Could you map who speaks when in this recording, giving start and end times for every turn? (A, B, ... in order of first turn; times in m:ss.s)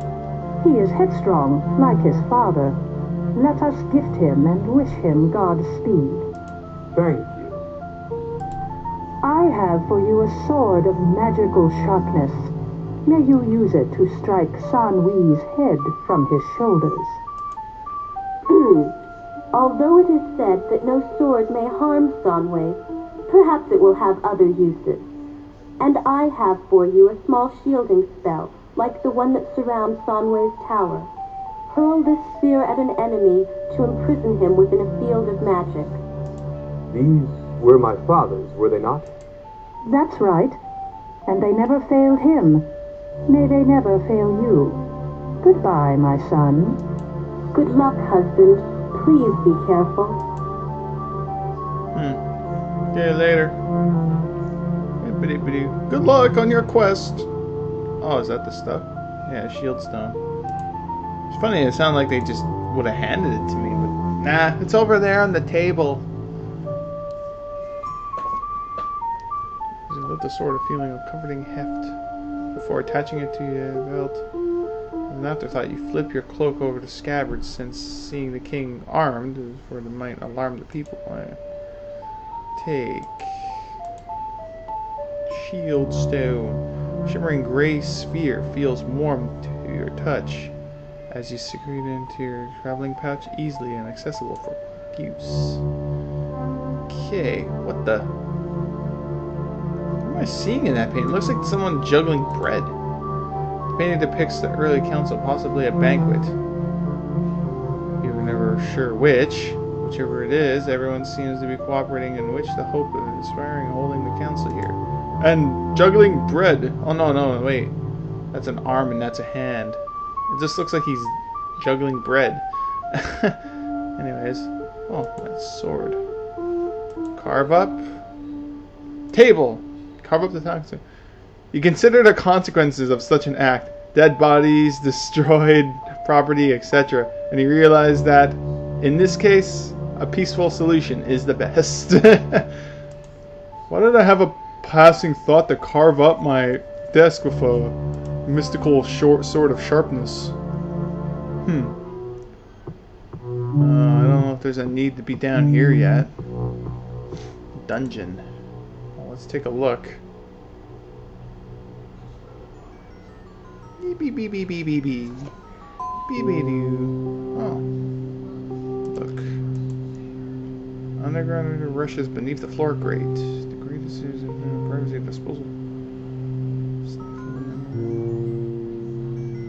0:00.6-0:02.8 A
0:03.4-0:06.2 A
0:06.9-0:07.6 B
0:09.2-0:12.5 A
0:13.1-0:17.2 A
0:18.5-0:18.9 C
0:19.5-0:25.0 C
0:25.8-0:31.1 C
0:31.7-0:36.0 C
0:36.9-0:39.1 B
0:39.8-0:40.6 A
0:41.3-0:42.7 A
0:43.3-0:44.8 A
0:45.4-0:46.8 A
0:47.5-0:50.2 C
0:51.9-0:52.2 D
0:52.9-0:53.6 D
0:55.0-0:57.3 D
0:58.0-1:00.2 D
1:01.3-1:06.0 D
1:09.9-1:12.0 D
1:12.5-1:14.2 D
1:15.1-1:21.4 D
1:22.6-1:23.6 D
1:25.3-1:30.5 D
1:31.1-1:35.6 D
1:36.9-1:38.1 D
1:40.0-1:42.7 D
1:43.7-1:46.4 D
1:48.0-1:57.8 D
1:58.3-2:03.4 D
2:04.0-2:06.0 D
2:07.2-2:07.9 D
2:09.1-2:10.8 D
2:11.5-2:22.5 D
2:23.7-2:30.4 D
2:31.4-2:31.7 D
2:33.6-2:36.1 D
2:37.6-2:38.2 D
2:39.0-2:40.0 D
2:43.8-2:45.3 D
2:46.1-2:47.7 D
2:48.9-2:49.4 D
2:51.0-2:55.5 D
2:56.8-2:57.8 D